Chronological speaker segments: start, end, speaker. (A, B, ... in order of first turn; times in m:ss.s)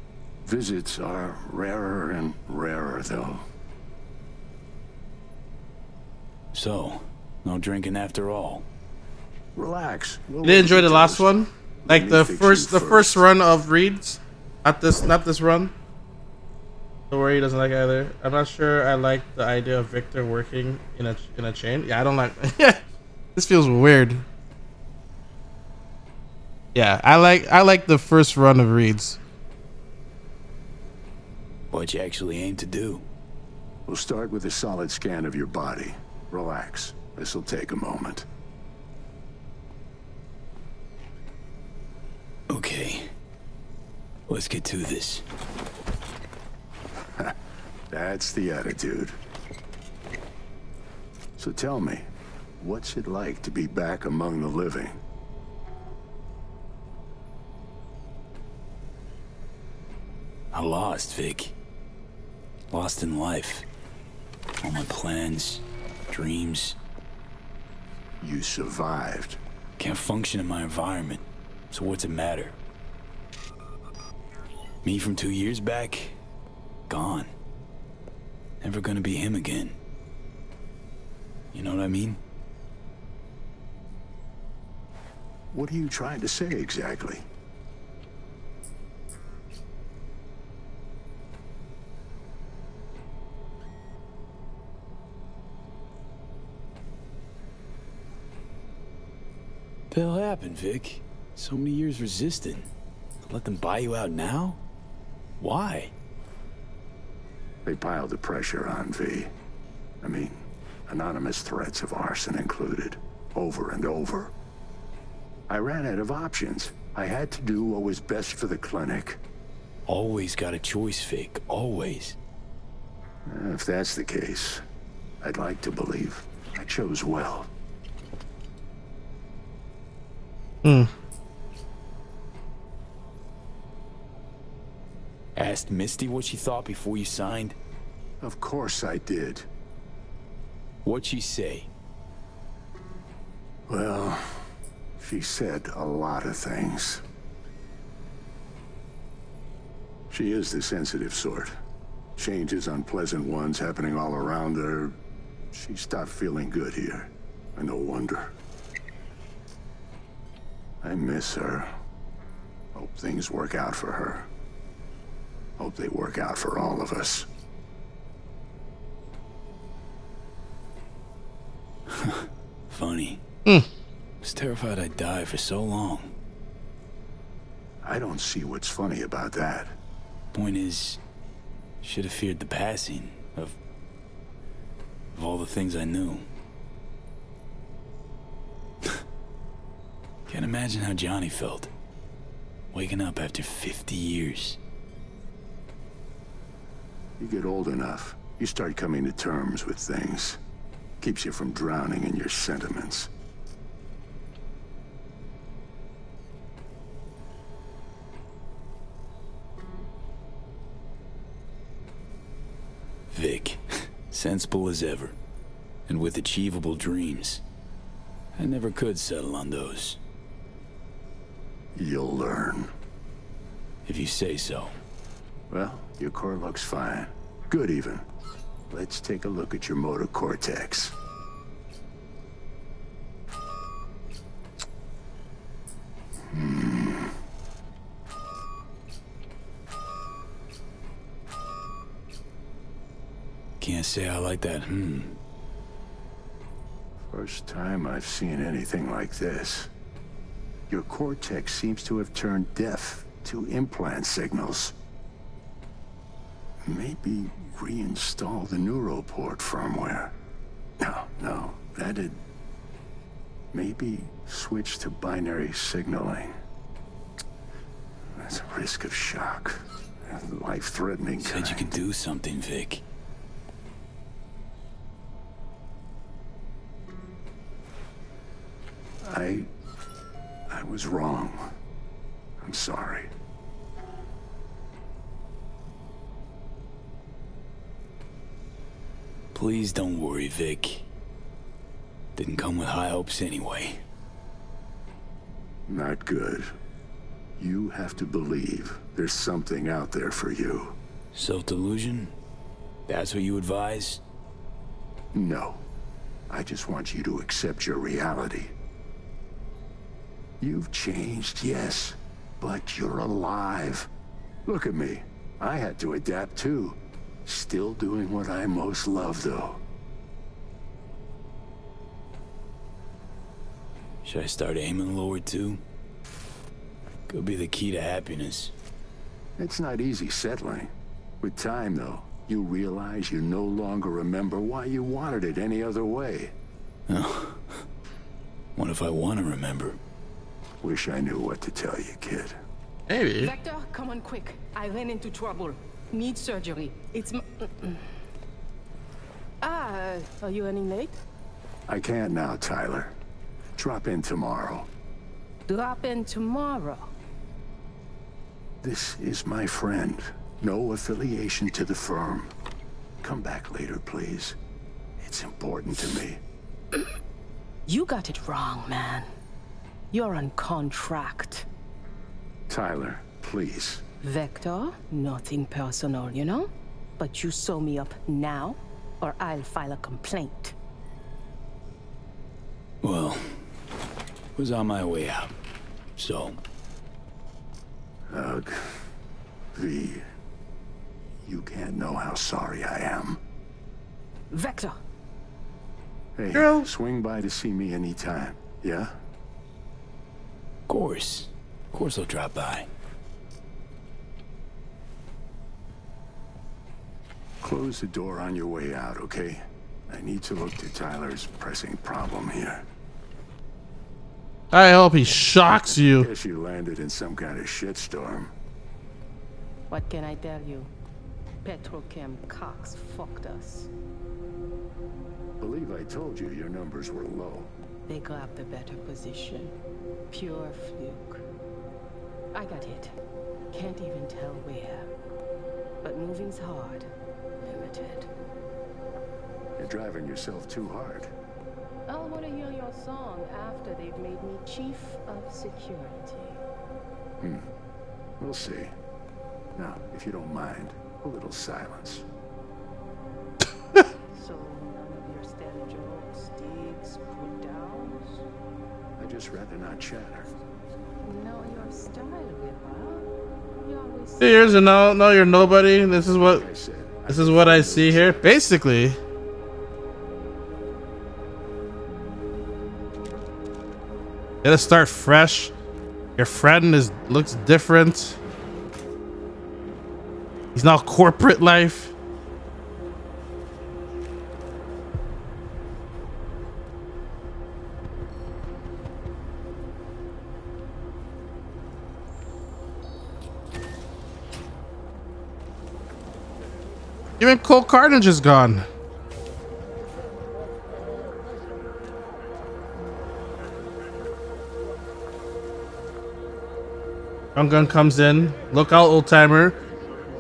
0:00.4-0:03.4 A
0:06.5-0:08.7 B
0:09.6-0:13.3 A
0:10.4-0:15.7 C
0:17.1-0:22.8 C
0:23.4-0:24.2 C
0:26.8-0:29.2 C
0:31.7-0:33.1 B
0:33.9-0:38.3 A
0:42.5-0:43.1 B
0:44.3-0:45.2 B
0:47.9-0:49.2 A
0:51.4-0:52.1 A
0:52.6-0:55.0 A
1:00.5-1:01.5 B
1:02.7-1:03.7 B
1:04.6-1:06.8 B
1:08.2-1:09.4 A
1:09.8-1:12.6 B
1:14.8-1:16.2 B
1:16.9-1:17.3 B
1:18.6-1:19.8 B
1:21.5-1:22.2 B
1:25.5-1:27.2 A
1:39.9-1:42.7 B
1:43.3-1:44.6 B
1:45.4-1:45.9 B
1:47.6-1:49.3 A
1:50.0-1:54.3 A
1:55.5-1:59.2 A
1:59.9-2:02.2 B
2:03.3-2:04.6 A
2:05.2-2:07.5 A
2:10.6-2:10.9 C
2:15.4-2:17.6 B
2:18.2-2:19.5 A
2:20.8-2:21.7 B
2:23.7-2:24.2 A
2:25.0-2:27.0 A
2:30.1-2:31.6 A
2:32.2-2:35.0 A
2:35.5-2:38.3 A
2:40.8-2:41.7 A
2:42.8-2:44.3 A
2:45.6-2:47.3 A
2:51.9-2:53.2 B
2:54.2-2:56.2 B
2:57.8-2:59.8 A
3:00.3-3:01.0 B
3:01.8-3:03.6 B
3:05.1-3:06.3 B
3:10.3-3:11.7 B
3:12.7-3:14.6 B
3:17.2-3:20.4 A
3:21.0-3:23.1 A
3:33.1-3:35.2 B
3:35.9-3:37.4 B
3:38.4-3:40.0 B
3:41.8-3:42.7 A
3:43.8-3:44.8 B
3:45.5-3:48.0 A
3:48.7-3:50.9 A
3:56.3-3:57.1 A
4:03.6-4:05.2 B
4:07.0-4:09.7 A
4:10.7-4:14.7 A
4:16.6-4:20.1 A
4:20.8-4:22.2 A
4:23.5-4:26.3 A
4:28.2-4:31.7 A
4:31.2-4:32.8 B
4:39.1-4:39.5 A
4:40.5-4:41.5 A
4:42.4-4:43.1 A
4:49.3-4:50.9 B
4:52.2-4:53.8 B
4:55.7-4:56.5 A
4:57.4-5:00.8 A
5:01.1-5:02.2 B
5:02.9-5:04.0 B
5:05.1-5:05.6 A
5:06.3-5:08.5 A
5:10.4-5:13.9 A
5:14.5-5:19.6 A
5:24.0-5:25.6 B
5:27.1-5:28.5 B
5:29.4-5:30.7 A
5:31.2-5:36.3 A
5:36.9-5:37.6 B
5:38.6-5:39.8 B
5:40.6-5:42.4 A
5:42.9-5:43.3 C
5:43.2-5:47.8 D
5:49.4-5:51.0 D
5:51.7-5:52.9 A
5:53.6-5:54.7 A
5:55.5-5:56.9 D
5:58.6-6:02.3 A
6:03.0-6:04.4 A
6:05.0-6:06.2 A
6:07.7-6:09.1 D
6:09.9-6:11.5 D
6:12.5-6:13.8 A
6:14.0-6:20.5 D
6:22.8-6:23.4 B
6:24.4-6:25.4 B
6:26.0-6:26.4 B
6:28.1-6:28.8 A
6:29.6-6:30.0 A
6:31.2-6:33.2 A
6:34.3-6:34.8 D
6:36.2-6:38.9 A
6:36.3-6:36.7 C
6:40.7-6:42.7 B
6:47.4-6:52.6 A
6:54.5-6:56.1 C
6:55.8-6:58.3 A
6:59.7-7:00.7 D
7:01.4-7:03.7 D
7:05.4-7:07.5 A
7:07.9-7:09.5 D
7:10.1-7:11.2 D
7:12.3-7:13.0 D
7:13.5-7:14.9 D
7:15.8-7:16.9 D
7:17.4-7:18.1 D
7:19.6-7:21.1 A
7:21.9-7:26.4 D
7:27.2-7:27.5 A
7:28.2-7:28.7 A
7:29.6-7:32.0 A
7:34.1-7:38.2 D
7:39.0-7:40.3 A
7:41.0-7:44.7 D
7:44.2-7:46.4 C
7:46.2-7:48.2 A
7:47.1-7:49.0 C
7:54.4-7:55.5 C
7:56.2-7:58.2 C
8:00.6-8:01.9 C
8:17.2-8:18.6 C
8:27.4-8:29.6 C